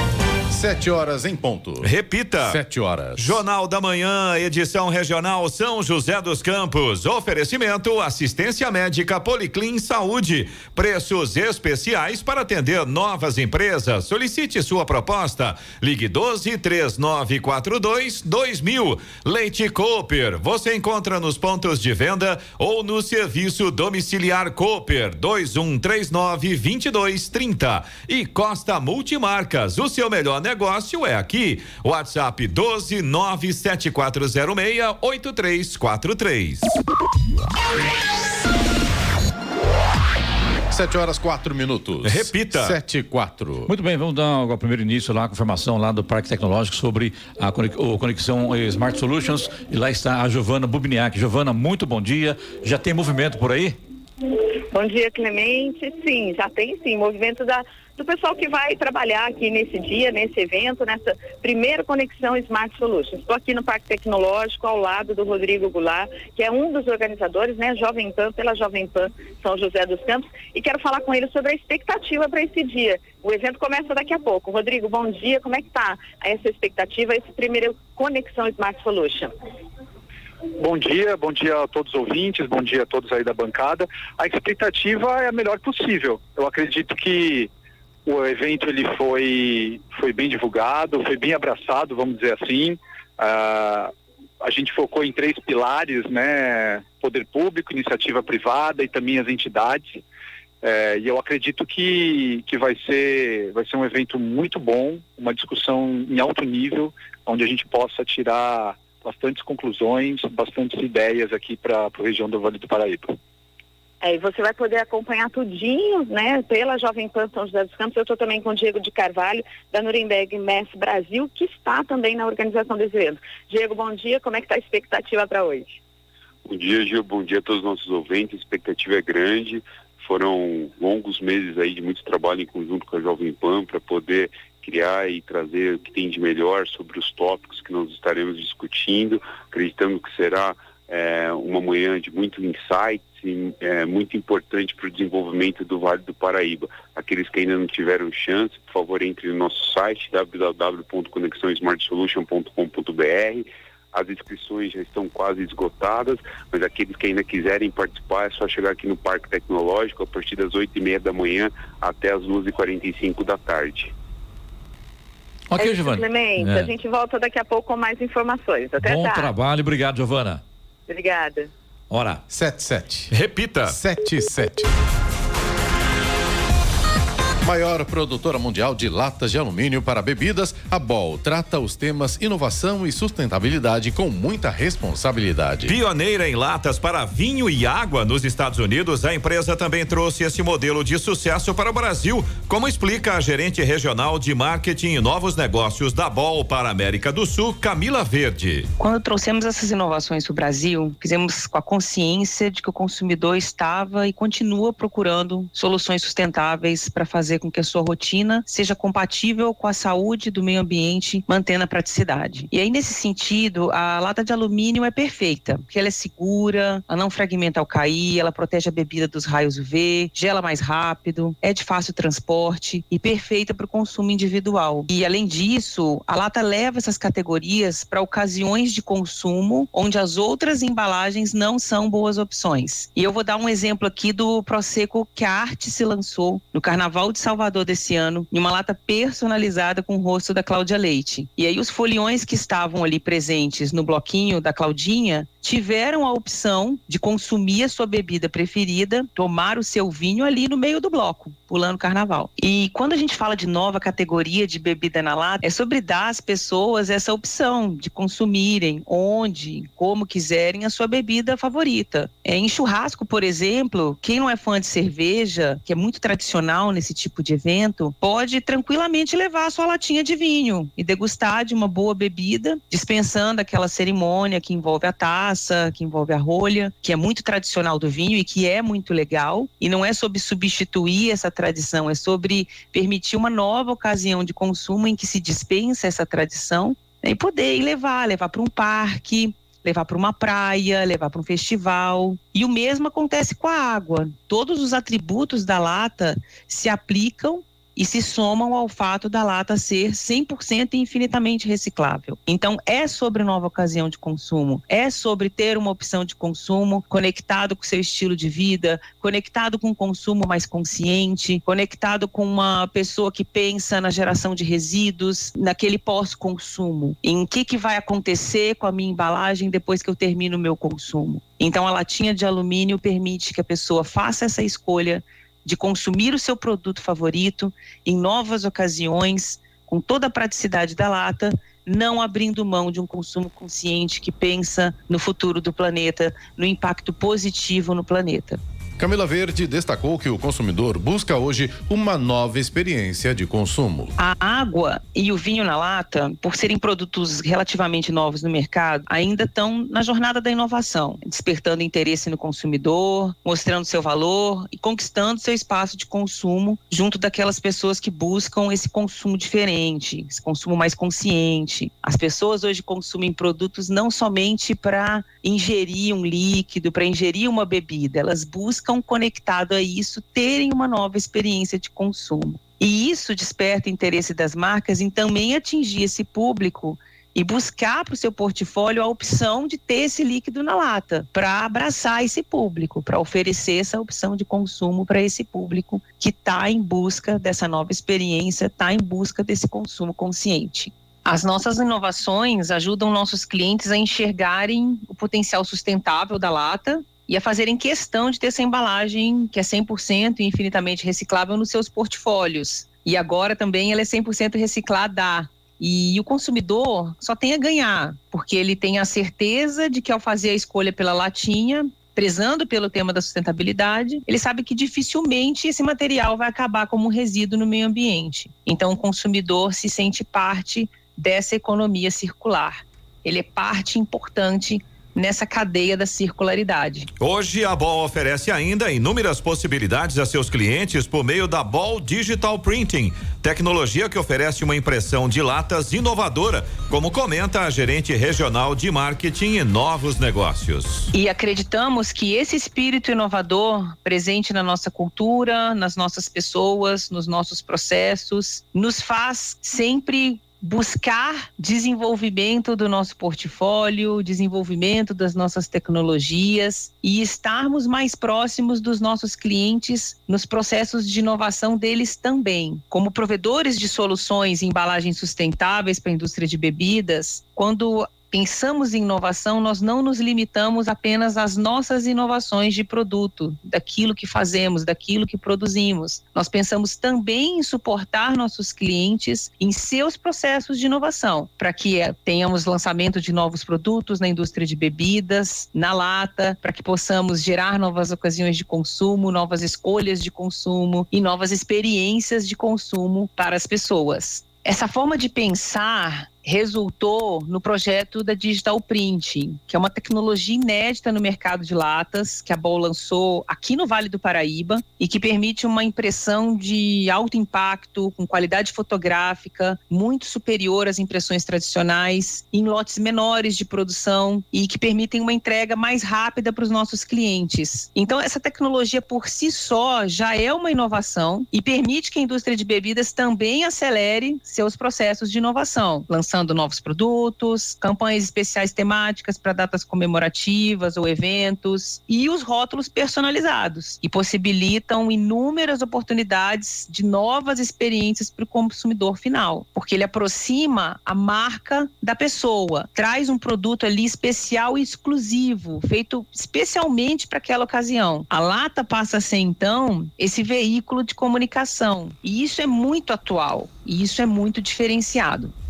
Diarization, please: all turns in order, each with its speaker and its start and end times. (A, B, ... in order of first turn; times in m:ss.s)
0:00.5-0:03.4 A
0:01.8-0:02.6 B
0:03.2-0:36.8 B
0:40.7-0:43.7 A
0:42.0-0:42.8 B
0:43.7-0:53.8 C
0:54.7-1:19.3 D
1:20.6-1:27.5 E
1:28.0-1:40.0 E
1:40.6-1:53.2 E
1:54.0-2:05.8 D
2:06.4-2:43.9 F
2:45.5-2:46.7 C
2:45.6-2:49.3 D
2:48.8-2:50.4 C
2:50.9-2:51.5 D
2:51.9-2:52.2 C
2:52.3-2:53.1 A
2:53.1-2:53.8 B
2:53.7-2:54.7 A
2:57.4-3:05.8 A
3:05.6-3:18.7 B
3:18.8-5:38.4 G
5:38.8-5:43.9 A
5:44.0-7:06.9 G
7:07.0-7:20.9 B
7:20.9-9:15.3 G